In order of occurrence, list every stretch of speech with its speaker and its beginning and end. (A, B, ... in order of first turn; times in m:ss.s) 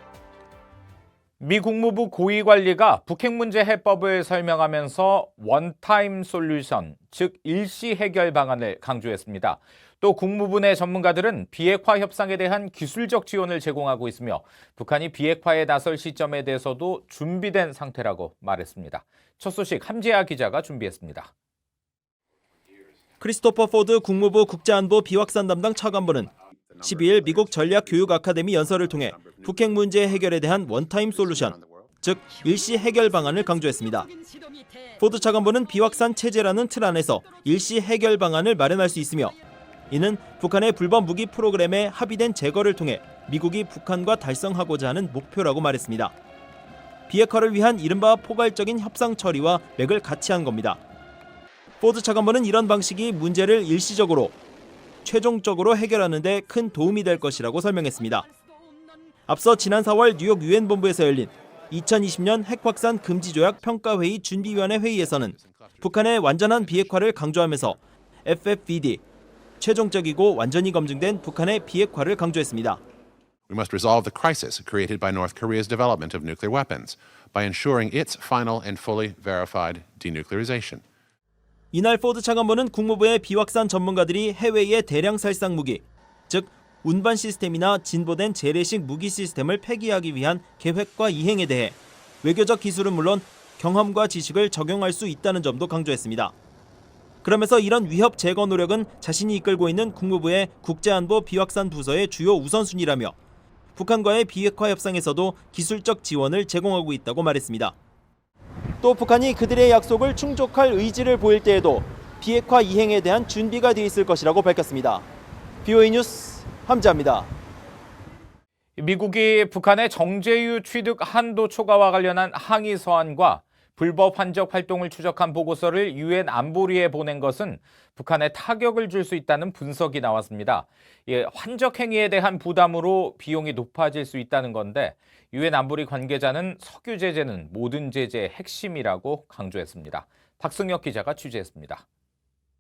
0:01.4-0:21.3 A
0:23.2-0:34.1 B
0:35.0-0:39.4 B
0:39.9-0:46.1 B
0:47.1-0:50.8 B
0:51.8-0:54.4 B
0:55.0-0:58.3 B
0:59.3-1:09.0 B
1:05.0-1:05.9 C
1:09.6-1:12.8 B
1:13.5-1:20.8 C
1:21.7-1:36.3 B
1:37.2-1:43.2 B
1:43.8-1:47.8 B
1:48.8-1:55.0 B
1:55.6-1:57.3 B
1:58.8-2:21.8 A